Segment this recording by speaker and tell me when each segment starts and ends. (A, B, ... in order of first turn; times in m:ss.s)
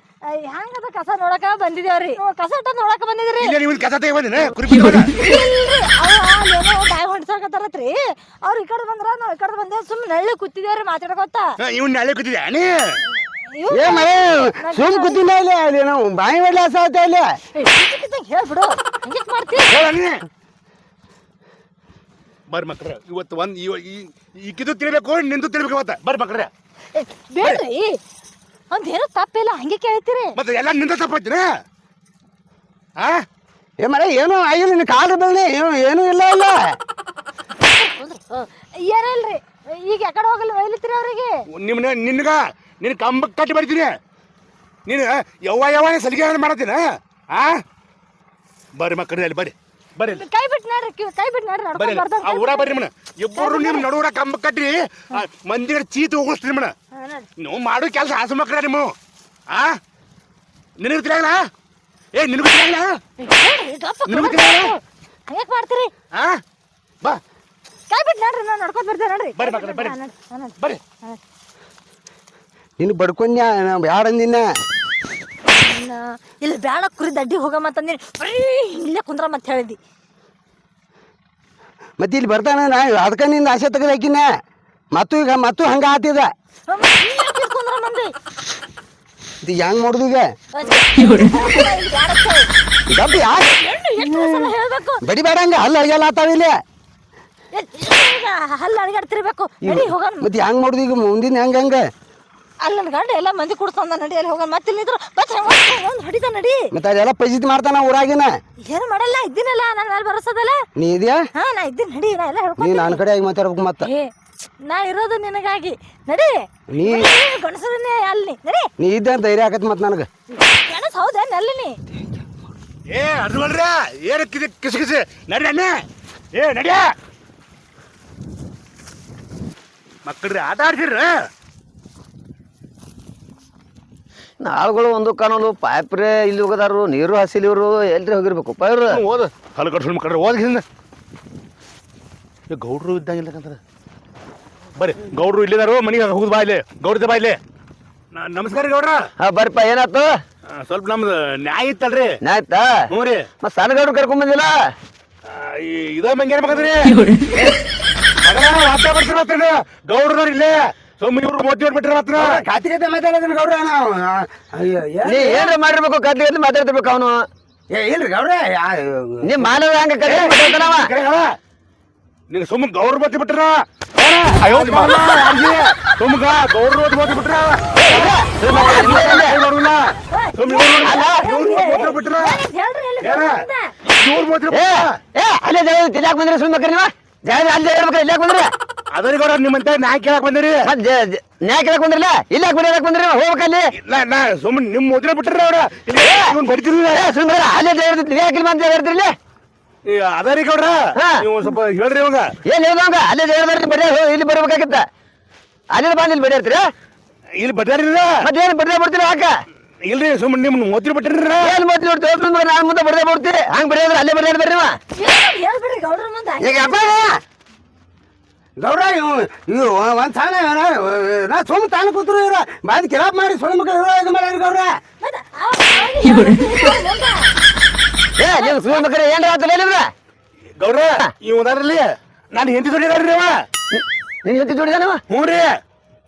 0:00.3-0:03.5 A
0:03.4-0:05.1 B
0:05.2-0:11.5 A
0:11.6-0:13.0 B
0:13.2-0:15.2 A
0:13.7-0:17.3 C
0:17.5-0:19.7 A
0:19.7-0:20.2 B
0:22.5-0:26.5 B
0:26.9-0:28.0 A
0:28.7-0:30.4 A
0:30.3-0:31.5 B
0:33.8-0:36.6 C
0:37.6-0:41.4 A
0:41.5-0:44.0 B
0:44.8-0:47.6 B
0:48.8-0:50.2 B
0:50.0-0:52.7 A
0:51.7-0:56.7 B
0:53.4-0:53.8 A
0:56.9-0:57.3 A
0:57.4-0:58.9 B
0:59.5-0:59.8 B
1:00.8-1:01.4 B
1:02.1-1:03.0 B
1:03.2-1:05.9 A
1:04.1-1:04.7 B
1:06.1-1:06.4 B
1:07.9-1:11.2 A
1:09.4-1:10.0 B
1:12.8-1:14.4 C
1:15.5-1:19.8 A
1:22.0-1:24.2 C
1:24.9-1:26.3 C
1:26.7-1:28.1 A
1:29.4-1:30.3 C
1:30.5-1:32.5 A
1:32.9-1:34.5 C
1:33.5-1:35.0 A
1:35.0-1:36.5 C
1:37.5-1:40.3 A
1:39.6-1:41.8 C
1:42.6-1:46.7 A
1:46.7-1:48.3 C
1:48.7-1:50.6 A
1:50.8-1:51.2 C
1:51.4-1:53.0 A
1:52.6-1:53.9 C
1:53.8-1:54.1 A
1:54.6-1:58.7 A
1:56.7-1:57.1 C
1:58.8-2:00.1 C
2:00.4-2:01.8 A
2:02.0-2:02.4 C
2:02.9-2:06.9 B
2:10.0-2:11.2 B
2:14.4-2:19.0 D
2:18.9-2:20.6 B
2:22.5-2:23.6 B
2:24.8-2:27.4 B
2:28.1-2:29.1 B
2:29.2-2:30.1 D
2:30.5-2:32.2 B
2:32.2-2:32.8 D
2:32.9-2:33.3 B
2:33.4-2:34.5 D
2:35.2-2:37.5 B
2:38.2-2:42.4 B
2:42.2-2:45.5 C
2:45.0-2:47.3 D
2:47.7-2:49.5 C
2:49.2-2:50.9 D
2:50.0-2:51.3 B
2:52.3-3:02.4 B
2:57.8-2:59.4 D
2:58.5-2:59.2 A
3:00.1-3:03.7 A
3:00.8-3:01.1 D
3:03.0-3:04.9 B
3:04.5-3:08.5 D
3:08.9-3:10.7 B
3:10.6-3:13.7 D
3:13.8-3:17.1 B
3:16.0-3:16.3 D
3:16.9-3:19.1 D
3:19.8-3:22.3 B
3:21.0-3:21.2 D
3:22.4-3:24.8 D
3:25.7-3:26.6 D
3:27.4-3:28.2 B
3:28.2-3:29.3 D
3:29.8-3:31.6 B
3:31.4-3:34.8 D
3:35.0-3:37.0 A
3:36.4-3:36.9 D
3:38.6-3:44.7 C
3:45.0-3:47.3 A
3:48.2-3:49.9 D
3:48.3-3:48.8 A
3:50.6-3:53.4 B
3:53.7-3:55.0 D
3:55.1-3:55.6 B